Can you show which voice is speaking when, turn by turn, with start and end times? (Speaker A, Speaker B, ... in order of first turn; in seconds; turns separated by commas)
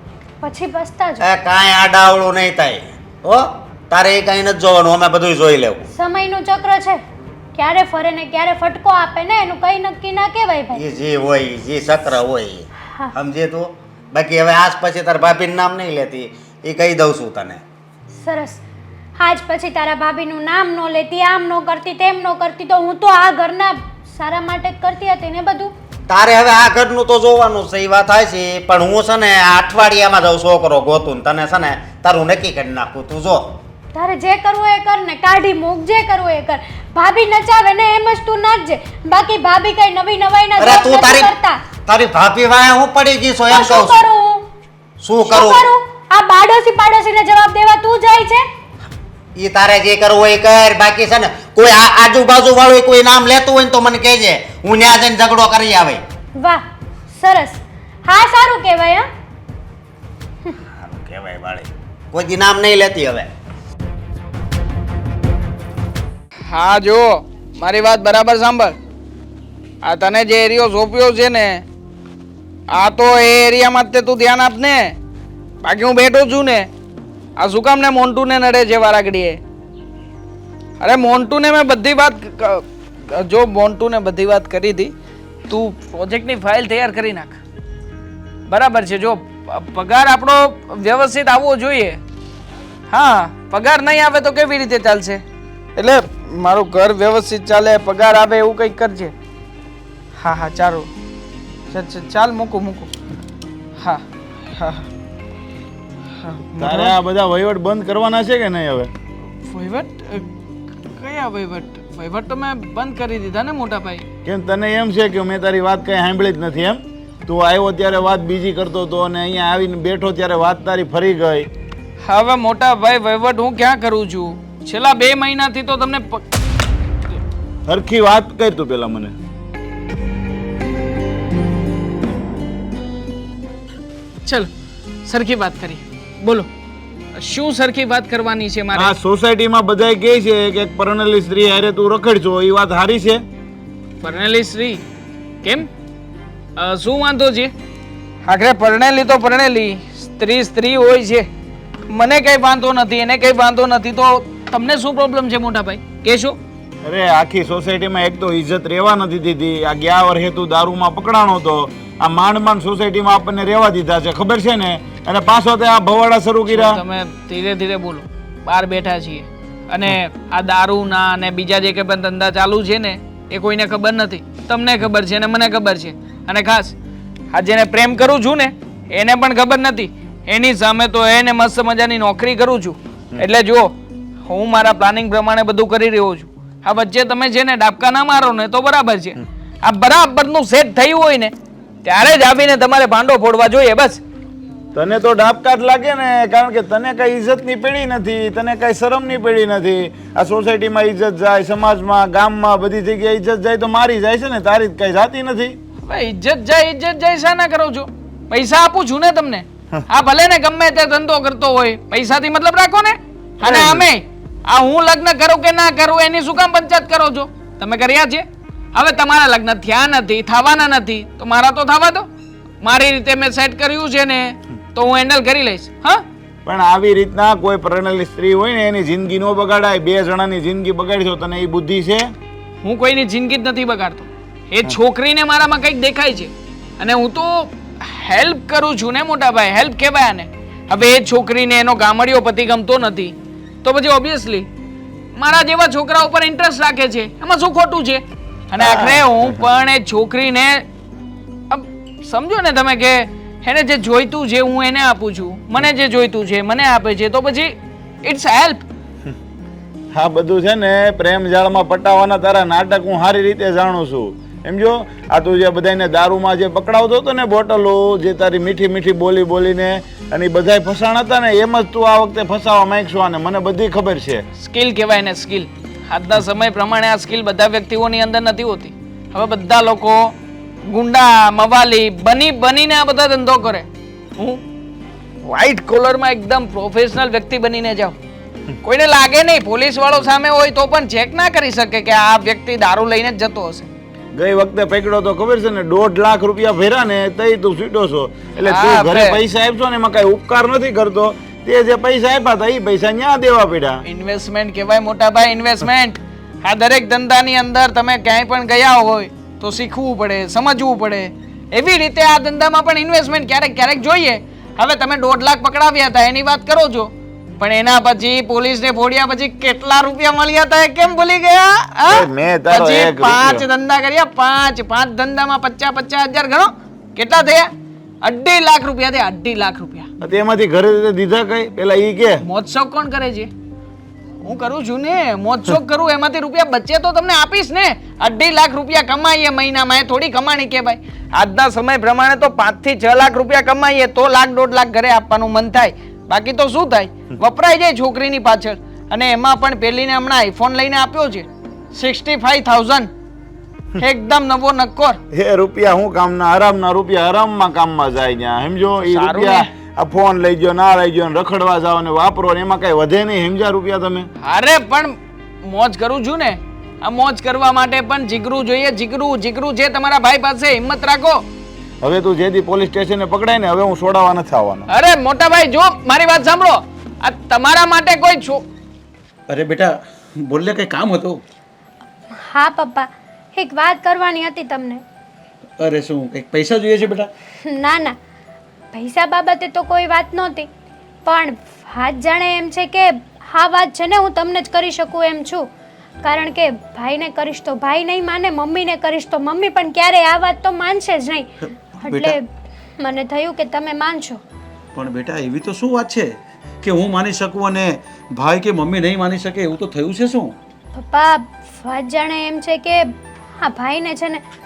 Speaker A: 0.4-1.2, Speaker B: 1.2-5.9, Speaker A: 5.9-7.0, Speaker A: 7.5-10.8, Speaker B: 10.7-17.6, Speaker A: 12.8-13.1, Speaker A: 18.1-18.6, Speaker A: 19.2-25.7, Speaker B: 26.1-33.6, Speaker A: 33.9-41.6, Speaker B: 40.6-41.3, Speaker B: 41.9-44.0, Speaker A: 43.5-44.5, Speaker B: 45.0-45.7, Speaker A: 45.2-48.5, Speaker B: 49.3-56.0, Speaker A: 56.4-56.6, Speaker A: 57.1-59.1, Speaker B: 60.7-63.3, Speaker C: 66.5-68.8, Speaker C: 69.8-71.6, Speaker C: 72.7-75.0, Speaker C: 75.6-76.7, Speaker C: 77.4-79.4, Speaker C: 80.8-84.9, Speaker C: 85.5-87.4, Speaker C: 88.5-92.0, Speaker C: 92.9-95.2, Speaker C: 95.8-99.1, Speaker C: 100.2-100.9, Speaker C: 101.7-102.9, Speaker C: 103.8-104.9, Speaker C: 106.2-107.0, Speaker D: 106.6-108.9, Speaker C: 109.4-110.3, Speaker C: 110.9-114.0, Speaker D: 114.2-121.5, Speaker C: 122.0-126.2, Speaker D: 127.7-129.1, Speaker C: 134.2-134.5, Speaker C: 135.0-136.5, Speaker C: 137.1-138.9, Speaker D: 138.7-143.2, Speaker C: 144.0-144.8, Speaker C: 145.4-145.7, Speaker C: 146.6-147.5, Speaker C: 148.2-151.3, Speaker C: 151.9-156.4, Speaker D: 156.8-166.8, Speaker C: 166.5-176.8, Speaker C: 177.3-183.7, Speaker C: 184.2-191.3, Speaker C: 191.8-194.0, Speaker D: 194.7-205.6, Speaker C: 205.8-222.1, Speaker D: 213.4-213.8, Speaker C: 222.6-226.0, Speaker D: 226.4-232.1, Speaker C: 232.6-244.5, Speaker C: 245.1-250.7, Speaker C: 251.5-258.6, Speaker D: 259.9-274.2, Speaker C: 274.4-280.1, Speaker C: 280.7-284.4, Speaker C: 285.2-288.0, Speaker C: 288.6-293.7, Speaker D: 294.1-303.8, Speaker C: 298.4-299.2, Speaker C: 303.9-327.5, Speaker D: 321.9-323.4, Speaker C: 328.0-329.9, Speaker D: 330.0-332.2, Speaker C: 332.2-333.3, Speaker C: 334.2-352.9, Speaker C: 353.8-355.0, Speaker D: 355.1-364.1, Speaker C: 358.9-359.5, Speaker C: 364.2-371.2, Speaker D: 371.8-374.7, Speaker C: 374.7-378.4, Speaker E: 379.3-381.2, Speaker A: 382.1-384.8, Speaker E: 385.6-387.1, Speaker A: 387.4-388.0, Speaker A: 388.7-390.5, Speaker A: 391.1-395.5, Speaker A: 396.0-401.3, Speaker E: 401.4-402.2, Speaker A: 401.8-402.2, Speaker A: 402.8-404.2, Speaker E: 404.7-410.3, Speaker A: 410.7-414.2